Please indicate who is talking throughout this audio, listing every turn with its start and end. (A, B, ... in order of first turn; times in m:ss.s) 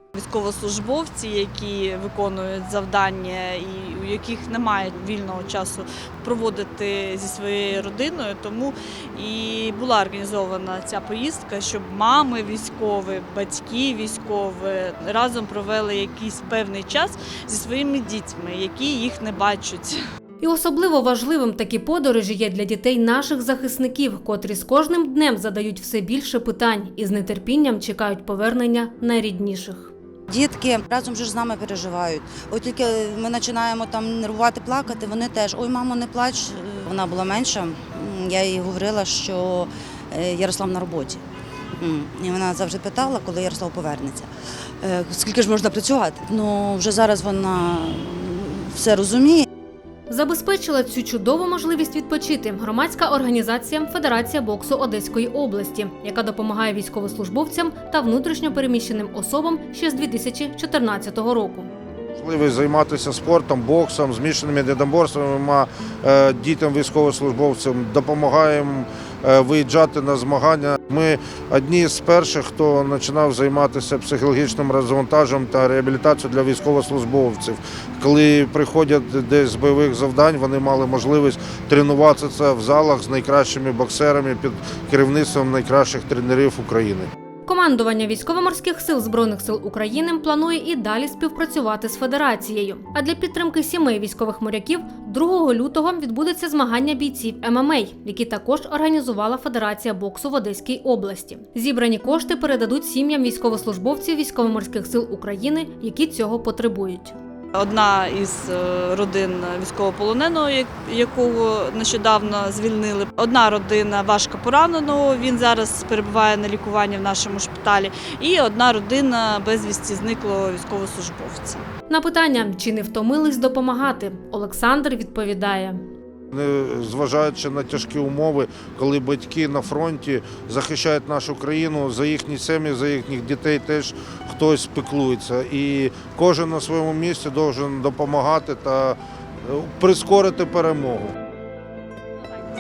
0:00.2-0:20.0 A
0:20.4-0:29.9 B
0:30.3-0:41.2 C
0:41.8-0:44.3 C
0:44.8-0:49.4 C
0:50.1-1:01.7 B
1:02.2-1:27.1 D
1:27.4-1:47.2 B
1:47.6-2:01.7 A
2:01.9-2:05.8 B
2:06.3-2:21.1 D